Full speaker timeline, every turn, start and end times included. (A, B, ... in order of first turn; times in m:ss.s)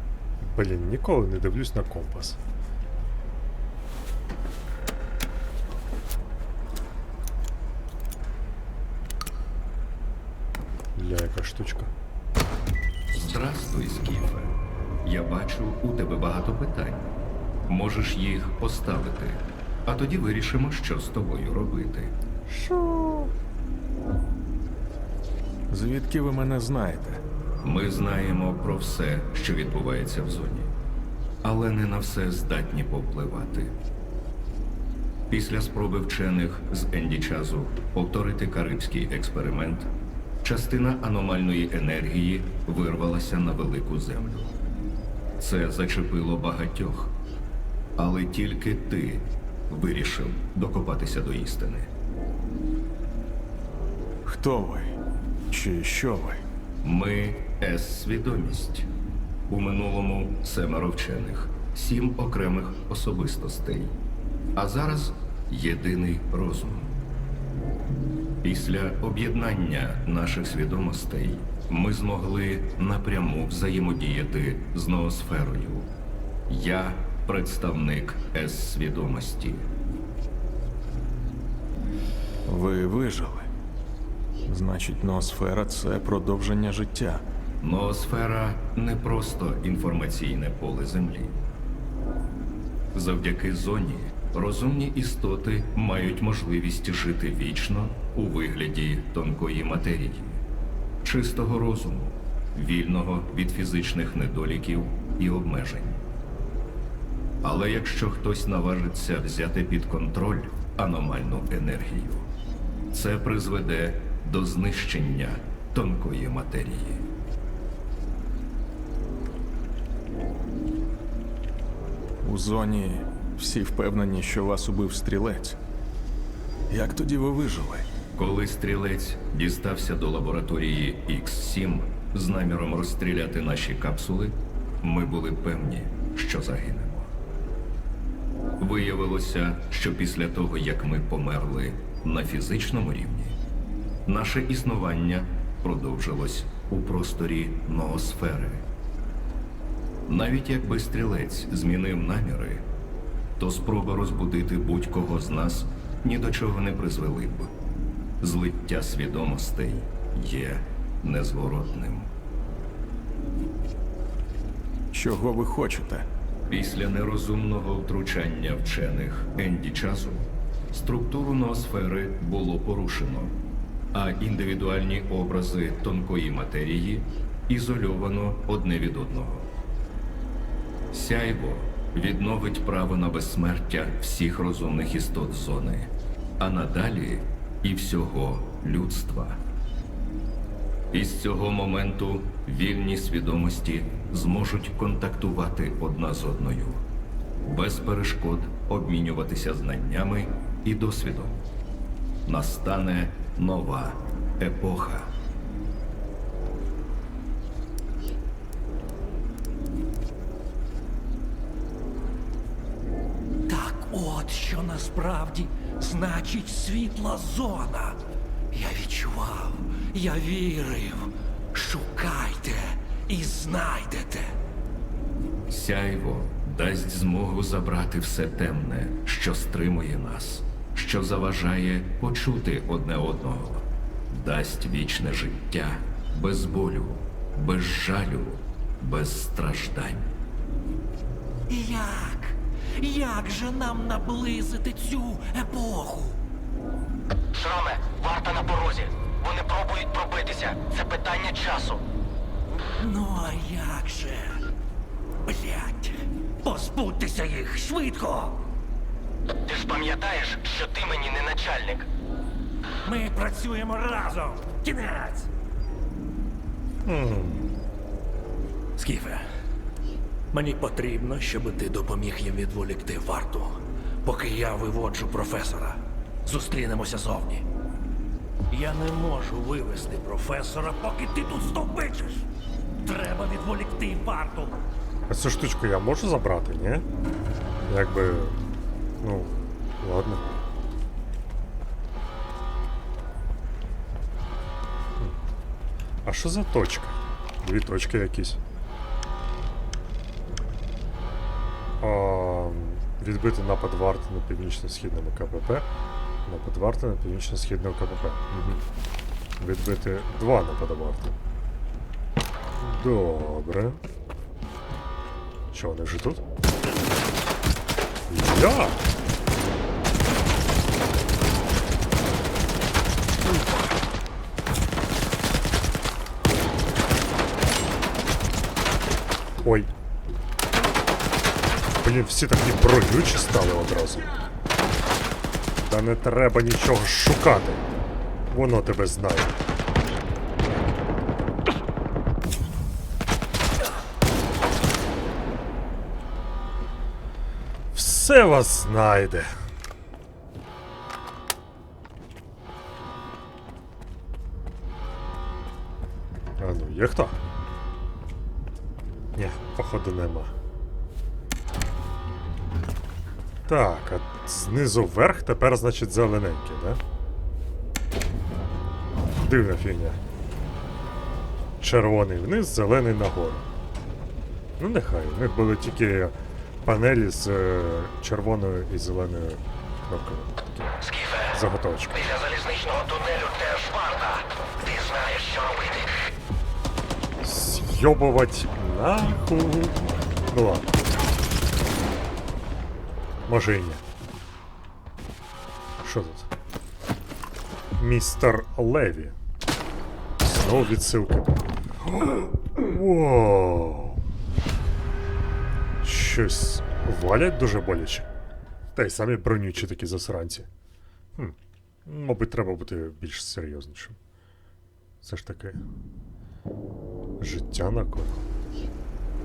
0:00.4-0:02.4 A
0:11.0-0:11.9 A
0:13.1-0:17.1 B
0:17.7-0:22.2 B
0:22.5-0:23.3 A
0:25.7-0:27.2 C
0:27.6-0:30.7 B
0:31.4-0:33.8 B
0:35.3-0:39.9 B
0:40.4-0:44.5 B
0:45.4-0:47.2 B
0:48.0-0:51.9 B
0:54.2-0:55.0 C
0:55.5-0:56.4 C
0:56.8-0:58.9 B
0:59.5-1:04.0 B
1:04.6-1:06.9 B
1:08.4-1:15.9 B
1:16.5-1:19.7 B
1:22.5-1:23.5 C
1:24.5-1:27.2 C
1:27.6-1:31.4 B
1:32.9-1:40.4 B
1:41.0-1:46.0 B
1:47.4-1:52.3 B
1:52.9-1:57.1 B
2:02.2-2:05.6 C
2:06.7-2:07.9 C
2:08.1-2:17.1 B
2:18.6-2:23.4 B
2:24.1-2:28.7 B
2:30.1-2:32.7 B
2:33.4-2:37.5 B
2:38.2-2:42.1 B
2:44.9-2:46.1 C
2:46.5-2:53.4 B
2:53.9-2:59.5 B
3:00.9-3:09.4 B
3:10.9-3:16.8 B
3:17.4-3:21.4 B
3:22.3-3:25.1 B
3:33.5-3:44.4 D
3:45.5-4:00.1 B
4:01.5-4:06.2 D
4:07.3-4:11.8 E
4:12.8-4:14.5 D
4:15.3-4:18.5 D
4:19.5-4:21.9 E
4:22.8-4:25.3 D
4:26.8-4:27.5 A
4:28.8-4:29.3 D
4:30.3-4:37.5 D
4:38.5-4:42.3 D
4:42.8-4:44.6 D
4:45.1-4:46.8 A
4:47.7-4:48.4 A
4:49.0-4:50.2 A
4:56.0-4:58.4 A
5:01.8-5:05.7 A
5:06.2-5:08.6 A
5:09.4-5:11.2 A
5:12.6-5:13.8 A
5:15.5-5:16.2 A
5:18.1-5:18.8 A
5:29.4-5:29.7 A
5:31.8-5:34.1 A
5:35.6-5:37.6 A
5:38.3-5:39.4 A
5:47.7-5:49.4 A
5:56.4-5:57.2 A
5:59.2-6:00.3 A
6:03.5-6:06.8 A
6:09.2-6:10.0 A
6:11.6-6:13.5 A
6:14.6-6:20.8 A
6:20.8-6:21.4 E
6:21.3-6:22.0 A
6:21.9-6:26.0 E
6:27.2-6:30.8 A
6:33.2-6:33.8 A
6:35.8-6:36.3 A
6:37.8-6:39.2 A
6:40.2-6:44.0 A
6:45.8-6:48.1 A
6:48.8-6:50.5 A
6:51.2-6:54.0 A
6:55.0-6:55.6 A
6:57.2-6:58.2 A